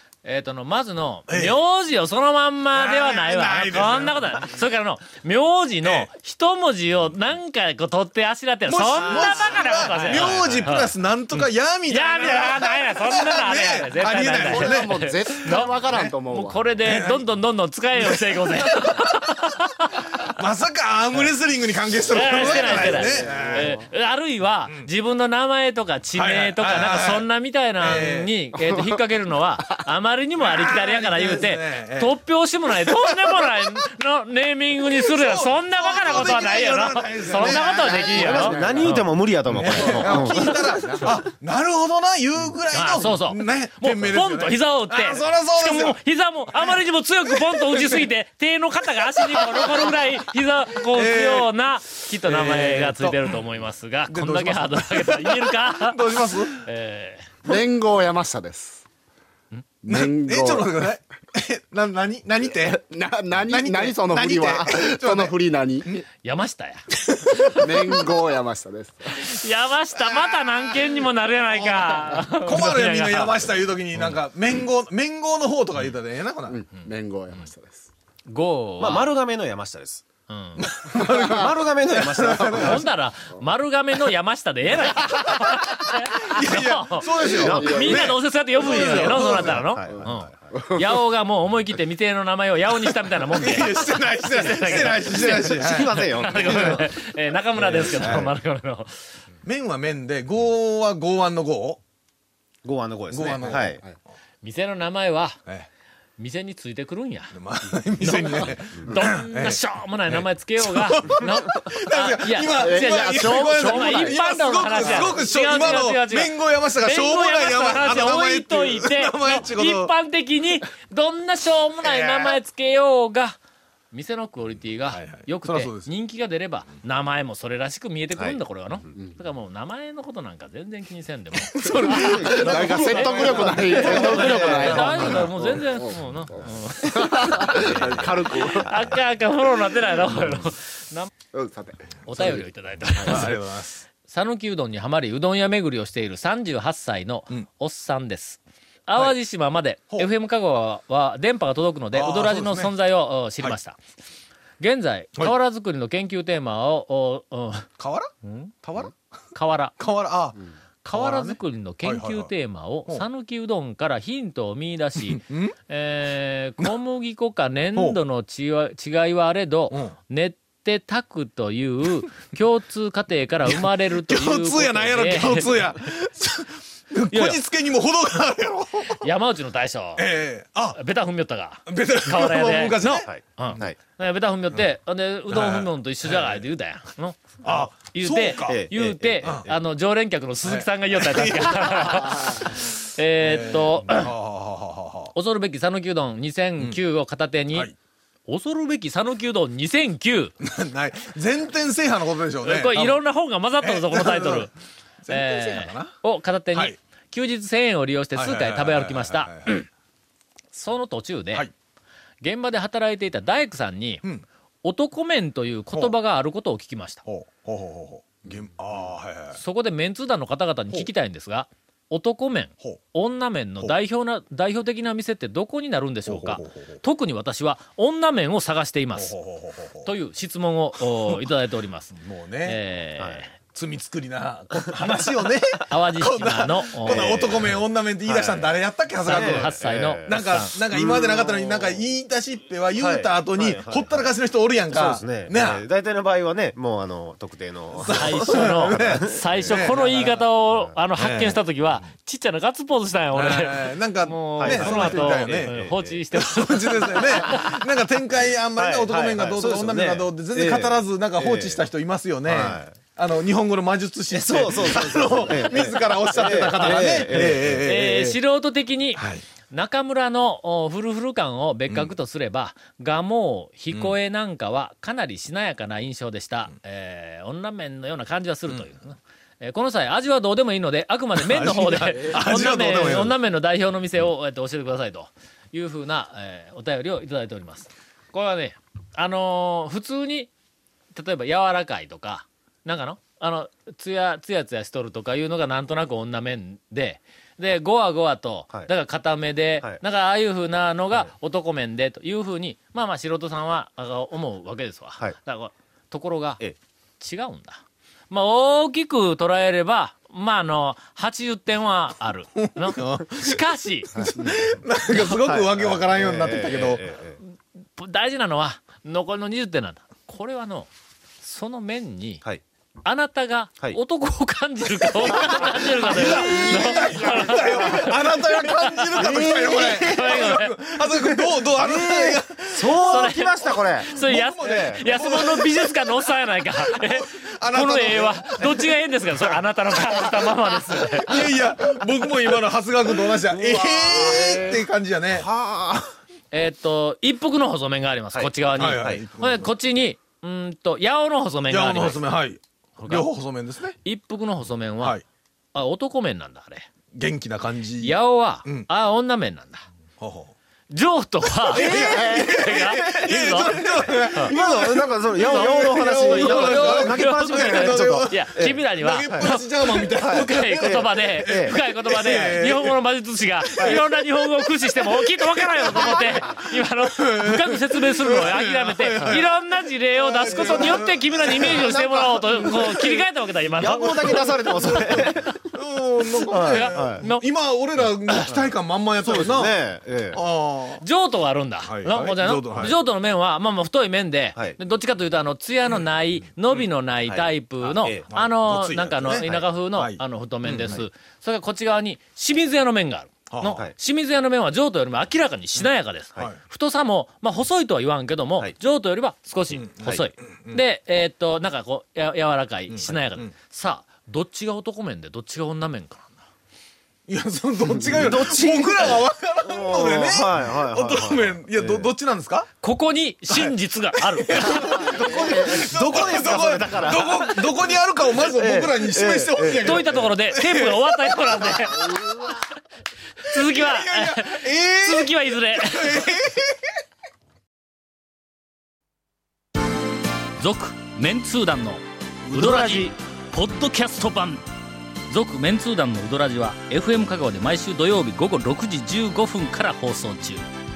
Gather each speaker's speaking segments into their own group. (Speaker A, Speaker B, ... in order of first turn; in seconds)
Speaker A: 0.2-20.3, 22.1-38.9, 42.7-56.0, 56.5-57.3, 66.0-67.6, 69.2-73.5, 78.3-79.1, 80.3-80.7, 82.5-98.9, 104.4-105.4, 106.2-107.3, 108.0-123.4, 123.9-137.7, 138.2-141.1, 142.0-143.4, 144.0-153.8, 154.6-157.7, 158.2-158.5, 159.3-159.8, 160.8-175.8, 177.1-177.4, 179.0-180.1, 180.8-194.1, 195.1-197.7, 198.3-200.3, 202.4-204.5, 205.1-209.7, 210.5-211.5, 212.2-214.0, 214.6-217.0, 219.4-229.2, 229.8-233.3, 235.7-237.2, 239.0-240.6, 247.9-257.6, 265.5-290.3, 290.9-306.4, 307.0-313.9, 317.8-320.7, 321.2-322.2, 322.8-330.5, 332.7-341.2, 346.3-352.0, 352.8-353.1, 353.8-355.0, 355.5-356.7, 357.8-359.6, 360.7-364.4, 365.2-385.3, 386.4-387.2, 390.8-416.2, 422.6-425.3, 429.6-432.4, 433.2-436.1, 440.4-444.4, 445.1-450.4
Speaker B: 1.3-1.6, 2.7-4.4, 5.8-6.1, 8.7-16.1, 16.8-17.2, 17.9-19.4, 20.2-23.8, 26.1-27.2, 27.8-28.3, 30.4-32.1, 32.7-33.8, 34.8-46.0, 47.3-48.1, 49.2-49.9, 50.8-51.5, 52.2-53.3, 54.1-56.6, 59.9-66.0, 66.9-67.9, 70.0-70.8, 71.5-76.6, 80.5-82.8, 84.7-89.7, 93.3-96.8, 97.6-98.3, 99.4-101.8, 103.1-103.8, 107.3-119.9, 121.8-122.4, 124.9-125.9, 131.3-135.2, 137.7-138.1, 142.2-142.4, 142.9-143.8, 151.9-152.7, 157.8-158.1, 158.6-158.9, 159.8-160.4, 160.9-162.3, 165.0-165.5, 173.5-179.1, 180.0-180.8, 181.7-183.6, 185.3-186.4, 187.4-188.6, 190.4-192.6, 193.2-195.1, 200.4-203.0, 203.6-204.5, 205.0-205.9, 208.1-209.6, 217.0-219.4, 226.1-226.8, 228.9-229.9, 231.9-232.6, 233.4-245.6, 247.7-249.9, 251.0-251.4, 253.1-255.6, 256.1-268.2, 268.9-269.2, 273.7-273.9, 281.1-283.2, 312.4-316.9, 325.0-340.1, 340.7-345.3, 348.5-349.5, 351.5-353.8, 356.9-358.7, 360.0-360.3, 361.4-372.8, 373.5-373.9, 374.8-379.3, 379.9-381.7, 382.3-383.0, 383.8-389.6, 390.1-390.8, 391.6-392.8, 398.1-400.0, 403.3-403.6, 409.5-410.6, 412.7-413.3, 417.1-422.5, 423.3-432.3, 433.3-436.7, 442.3-442.9
Speaker C: 14.4-16.7, 22.3-23.8, 37.4-39.0, 39.6-41.1, 57.4-58.9, 59.8-60.9, 62.8-65.9, 67.5-69.3, 76.5-77.9, 81.0-81.5, 82.3-83.4, 87.1-88.0, 88.8-91.0, 112.5-115.3, 131.7-138.9, 141.3-142.4, 325.9-327.8
Speaker D: 38.0-40.9, 78.8-80.0, 80.9-82.8, 87.3-88.0, 88.8-90.5, 94.7-96.9, 97.6-98.3, 102.6-103.8, 131.9-135.3, 137.5-138.5, 183.1-183.8, 188.4-189.6, 236.8-241.8, 242.8-244.1, 244.7-250.7, 254.4-256.0, 258.6-261.6, 262.3-262.8, 264.1-267.6, 315.1-317.2, 324.8-326.4, 329.0-330.3, 331.2-333.9, 334.4-334.8, 343.3-344.6, 345.1-345.9, 348.1-349.0, 361.5-369.3, 369.9-371.6, 380.3-382.8, 383.6-385.5, 386.3-387.0, 389.0-390.2, 397.1-398.1, 400.4-400.8, 417.7-421.9, 424.6-427.6, 428.1-429.9